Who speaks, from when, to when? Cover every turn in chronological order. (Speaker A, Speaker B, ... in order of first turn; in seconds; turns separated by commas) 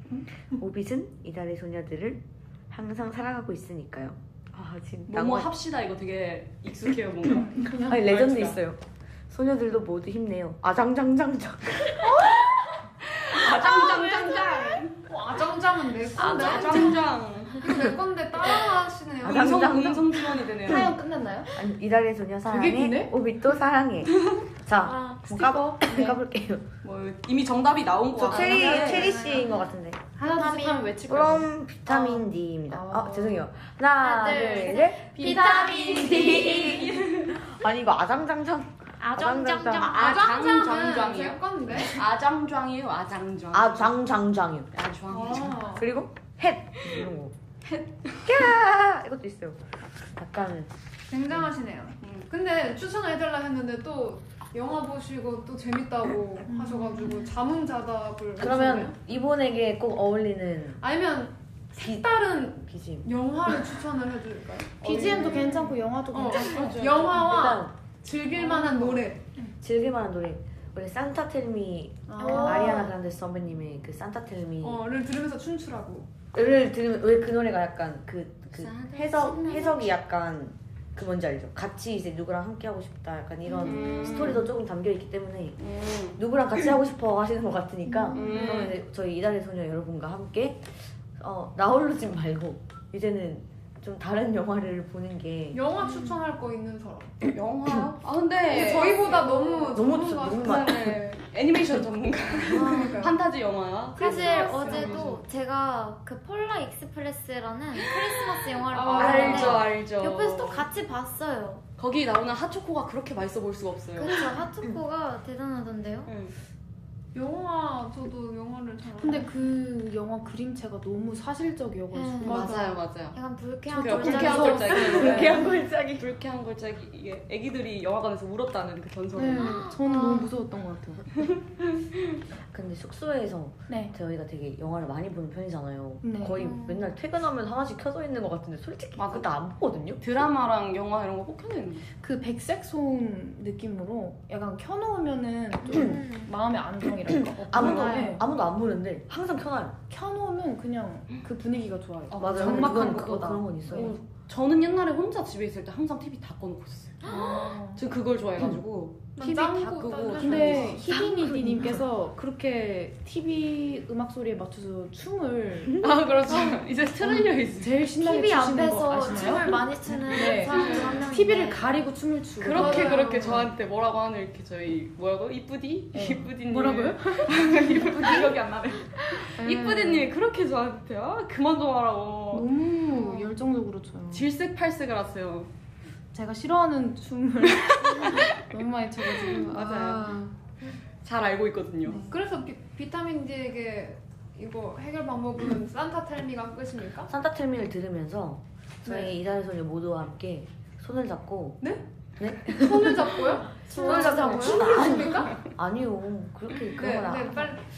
Speaker A: 0.4-5.5, Speaker B: 5.1-8.6, Speaker C: 7.3-8.0, Speaker A: 7.6-12.3, Speaker B: 12.1-15.0, Speaker D: 14.4-17.0, Speaker B: 16.2-17.7, Speaker E: 16.2-16.9, Speaker D: 17.6-19.9, Speaker A: 19.2-20.9, Speaker B: 19.2-20.9, Speaker C: 20.6-21.5, Speaker A: 21.5-26.7, Speaker C: 22.5-23.1, Speaker E: 24.8-25.6, Speaker C: 25.4-26.1, Speaker B: 26.8-29.2, Speaker A: 28.2-30.0, Speaker C: 28.3-29.3, Speaker D: 28.7-29.1, Speaker C: 30.2-33.5, Speaker E: 30.2-30.9, Speaker A: 31.1-40.0, Speaker E: 34.0-36.8, Speaker C: 35.1-36.7, Speaker B: 36.7-37.3, Speaker E: 39.0-40.2, Speaker B: 39.7-44.0, Speaker D: 39.9-42.0, Speaker A: 43.5-44.7, Speaker B: 44.7-45.6, Speaker D: 45.1-45.9, Speaker A: 45.8-47.3, Speaker A: 48.2-49.6, Speaker A: 50.1-50.7, Speaker D: 51.1-59.0, Speaker B: 52.0-52.3, Speaker C: 56.5-57.3, Speaker A: 58.4-60.8, Speaker D: 60.8-69.2, Speaker A: 61.8-62.0, Speaker A: 62.6-63.1, Speaker C: 64.8-66.9, Speaker B: 66.3-67.3, Speaker A: 67.1-67.7, Speaker A: 69.6-74.8, Speaker D: 72.1-72.9, Speaker C: 72.1-72.8, Speaker E: 72.2-72.7, Speaker D: 74.6-76.1, Speaker A: 76.3-95.6, Speaker E: 78.6-79.8, Speaker E: 83.5-84.2, Speaker B: 83.6-84.5, Speaker B: 85.6-86.2, Speaker E: 88.0-88.4, Speaker B: 88.1-88.8, Speaker D: 95.5-97.1, Speaker E: 95.8-96.2, Speaker B: 97.2-99.5, Speaker D: 98.4-100.6, Speaker A: 99.7-101.0, Speaker B: 100.3-105.2, Speaker D: 102.5-103.2, Speaker E: 102.5-103.0, Speaker D: 104.0-105.2, Speaker E: 104.0-111.6, Speaker B: 107.8-110.7, Speaker D: 108.7-109.7, Speaker B: 111.8-114.2, Speaker E: 114.0-116.1, Speaker B: 116.1-116.3, Speaker D: 117.1-119.3, Speaker C: 119.0-122.4, Speaker E: 121.9-122.4, Speaker D: 122.2-122.9, Speaker B: 122.2-123.2, Speaker E: 123.1-125.6, Speaker C: 123.7-125.3, Speaker B: 123.7-125.4, Speaker A: 124.7-126.1, Speaker B: 126.0-129.6, Speaker C: 129.1-131.3, Speaker E: 129.2-130.3, Speaker A: 132.5-140.0, Speaker C: 133.7-133.9, Speaker C: 136.0-136.4, Speaker E: 136.4-136.9, Speaker B: 139.0-139.3, Speaker B: 140.0-141.9, Speaker C: 142.0-148.2, Speaker E: 145.7-146.3, Speaker A: 145.7-146.0, Speaker A: 147.1-149.8, Speaker B: 147.5-148.0, Speaker C: 149.9-153.9, Speaker B: 152.1-153.1, Speaker A: 152.2-153.9, Speaker B: 153.7-160.8, Speaker E: 157.0-157.6, Speaker C: 157.1-157.8, Speaker D: 159.2-161.0, Speaker C: 160.2-166.5, Speaker A: 160.9-161.8, Speaker B: 165.8-167.8, Speaker C: 167.0-173.4, Speaker E: 168.0-171.7, Speaker B: 170.3-171.0, Speaker D: 170.5-171.0, Speaker B: 172.4-182.5, Speaker D: 172.5-173.5, Speaker C: 175.9-178.3, Speaker C: 179.4-180.1, Speaker C: 182.3-184.2, Speaker D: 183.0-183.3, Speaker B: 184.1-185.5, Speaker C: 186.1-190.3, Speaker B: 187.6-188.3, Speaker B: 189.2-190.2, Speaker B: 191.0-192.0, Speaker C: 191.8-192.1, Speaker D: 192.1-197.1, Speaker A: 197.1-207.6, Speaker D: 198.8-199.1, Speaker D: 202.4-205.4, Speaker E: 203.6-204.5, Speaker D: 206.8-207.6